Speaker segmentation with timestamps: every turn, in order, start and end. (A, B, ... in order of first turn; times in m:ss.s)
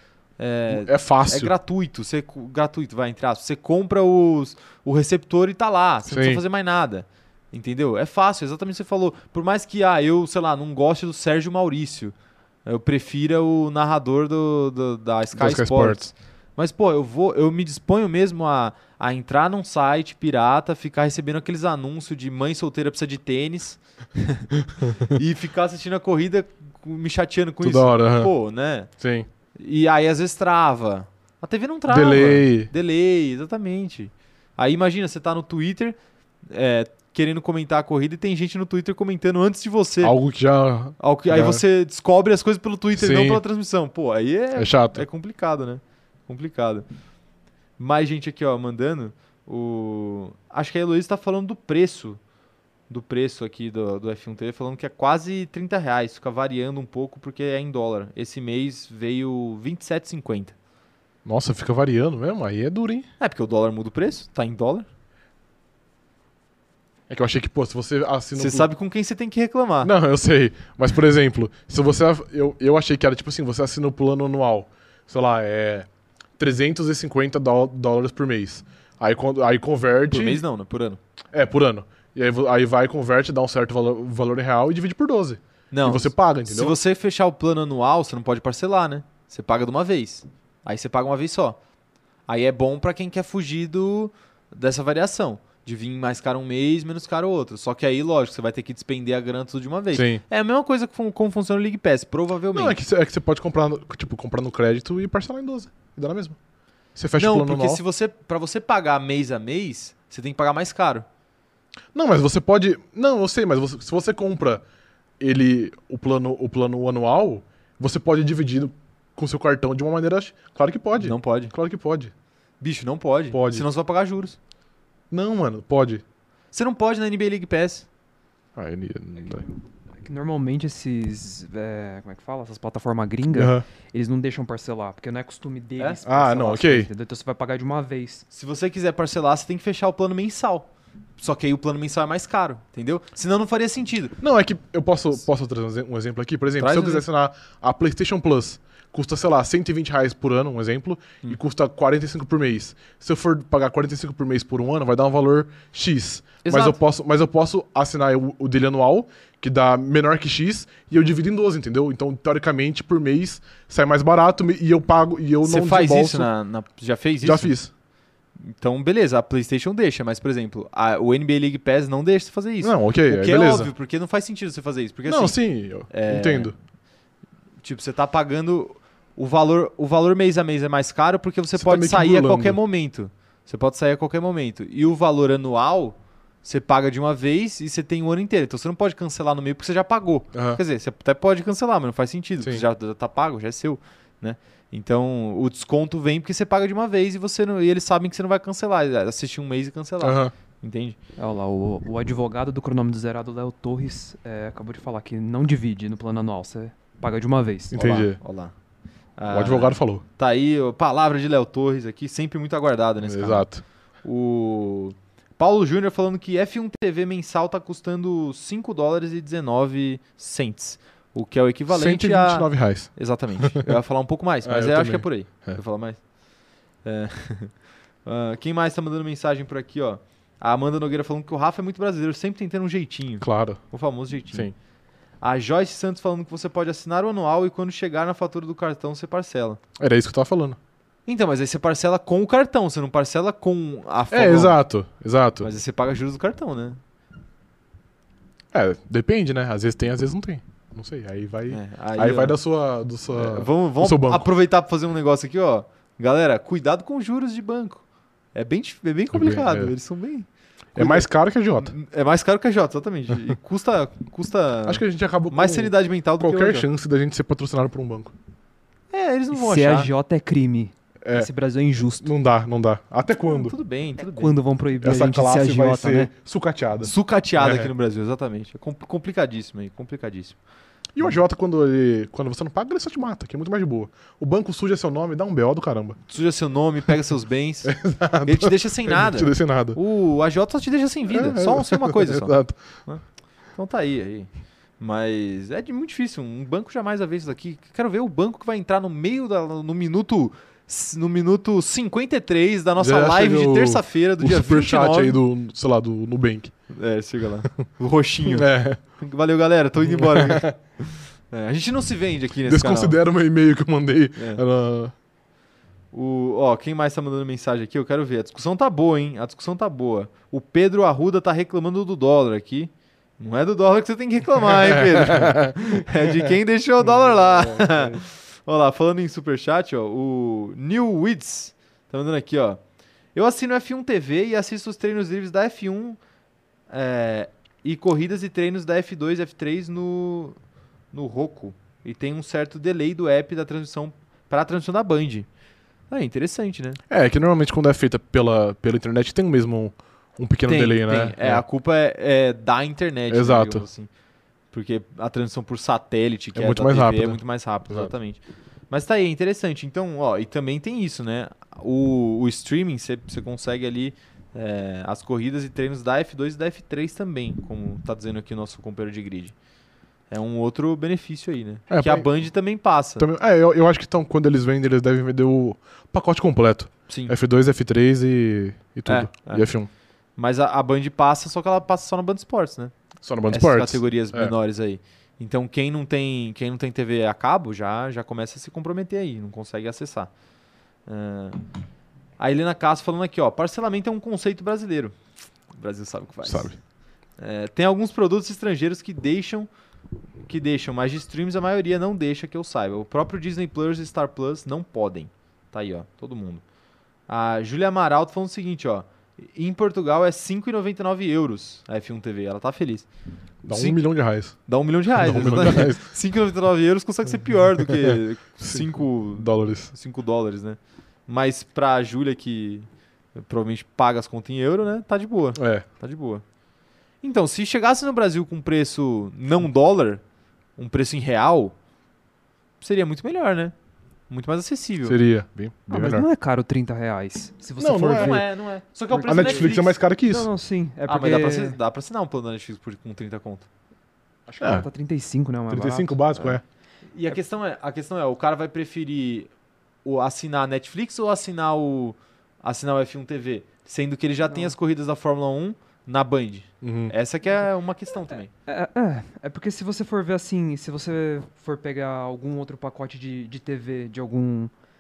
0:00.4-0:12.1 A
0:00.7-0:01.5 B
0:06.1-0:06.4 B
0:12.7-0:28.9 A
0:15.4-0:16.1 B
0:27.6-0:28.3 B
0:29.0-0:29.3 B
0:29.6-0:36.0 A
0:31.9-0:32.7 B
0:36.5-0:40.2 A
0:40.0-0:41.6 B
0:41.0-0:46.8 A
0:43.0-0:43.4 B
0:44.6-0:45.0 B
0:47.8-0:52.2 A
0:52.9-1:00.6 A
1:01.2-1:03.1 B
1:03.2-1:04.9 A
1:07.1-1:08.7 B
1:08.4-1:09.9 A
1:09.8-1:15.9 B
1:16.4-1:20.4 B
1:20.1-1:21.0 A
1:21.3-1:26.8 B
1:25.7-1:31.6 A
1:32.3-1:42.8 A
1:39.9-1:40.2 B
1:42.5-1:46.4 B
1:47.0-1:47.8 B
1:47.2-1:51.1 A
1:51.9-1:54.6 B
1:55.2-2:02.1 B
2:01.0-2:01.5 A
2:02.6-2:04.4 A
2:03.3-2:03.7 B
2:05.1-2:06.0 B
2:06.5-2:07.9 A
2:08.6-2:09.5 B
2:10.0-2:18.2 C
2:13.3-2:13.6 B
2:16.0-2:16.9 B
2:18.3-2:24.2 A
2:24.2-2:46.3 B
2:26.6-2:27.0 A
2:36.4-2:36.8 A
2:45.4-2:47.5 A
2:47.2-2:47.7 B
2:48.4-2:56.5 A
2:52.6-2:53.7 B
2:55.1-2:56.6 B
2:57.6-3:21.0 A
3:01.6-3:02.6 B
3:10.3-3:10.6 B
3:20.0-3:20.3 B
3:21.2-3:27.7 C
3:27.7-3:28.2 B
3:27.7-3:28.5 A
3:29.2-3:33.5 A
3:29.3-3:30.0 B
3:33.0-3:33.6 B
3:34.0-3:46.0 A
3:41.7-3:43.6 B
3:44.4-3:45.6 B
3:46.8-3:54.5 A
3:53.2-3:53.6 B
3:55.2-3:59.6 A
3:59.8-4:00.6 B
4:01.1-4:04.6 A
4:04.1-4:05.5 B
4:05.4-4:06.8 A
4:08.5-4:14.3 B
4:11.5-4:12.4 A
4:13.1-4:17.8 A
4:18.4-4:21.1 A
4:19.1-4:19.7 B
4:20.8-4:21.7 B
4:21.6-4:26.7 A
4:24.7-4:28.1 B
4:28.9-4:29.9 A
4:29.3-4:32.1 C
4:31.0-4:31.3 B
4:32.0-4:33.6 B
4:33.3-4:34.4 A
4:34.0-4:36.1 C
4:34.8-4:37.7 B
4:36.8-4:40.4 A
4:41.0-4:46.0 B
4:46.1-4:53.0 A
4:47.6-4:49.8 B
4:51.1-4:52.6 B
4:53.6-4:54.3 A
4:54.8-5:05.2 A
5:02.8-5:06.5 B
5:06.7-5:13.0 A
5:08.2-5:08.8 B
5:09.9-5:10.6 B
5:12.5-5:14.9 B
5:14.2-5:14.4 A
5:15.9-5:32.6 A
5:24.5-5:26.3 B
5:26.8-5:28.0 B
5:33.2-5:36.0 A
5:36.7-5:40.4 A
5:40.9-5:45.3 A
5:45.9-5:46.8 A
5:46.9-5:51.4 B
5:50.5-5:53.9 A
5:53.1-5:53.6 B
5:54.5-6:09.4 A
5:56.4-5:57.9 B
6:10.1-6:13.1 A
6:11.7-6:12.1 B
6:13.0-6:19.7 B
6:16.9-6:17.1 A
6:18.9-6:19.5 A
6:20.2-6:22.7 A
6:23.0-6:24.3 B
6:23.3-6:30.1 A
6:30.9-6:31.4 A
6:32.2-6:35.0 A
6:35.5-6:36.5 A
6:36.2-6:36.6 B
6:37.2-6:39.5 A
6:40.3-6:46.4 A
6:47.1-6:52.9 A
6:53.4-6:54.4 B
6:53.5-6:53.8 A
6:54.3-7:06.2 A
6:54.9-6:55.8 B
6:57.7-6:59.7 B
7:05.4-7:05.6 B
7:07.0-7:10.0 A
7:10.6-7:11.6 A
7:12.6-7:13.5 A
7:14.1-7:15.0 A
7:14.8-7:16.1 B
7:15.7-7:18.3 C
7:17.6-7:18.3 B
7:17.9-7:19.8 A
7:18.9-7:21.6 C
7:19.0-7:20.3 B
7:20.9-7:23.5 A
7:24.3-7:26.0 C
7:24.4-7:24.7 B
7:25.5-7:26.4 B
7:26.9-7:29.3 A
7:29.8-7:38.3 A
7:36.6-7:36.9 B
7:38.5-7:44.5 C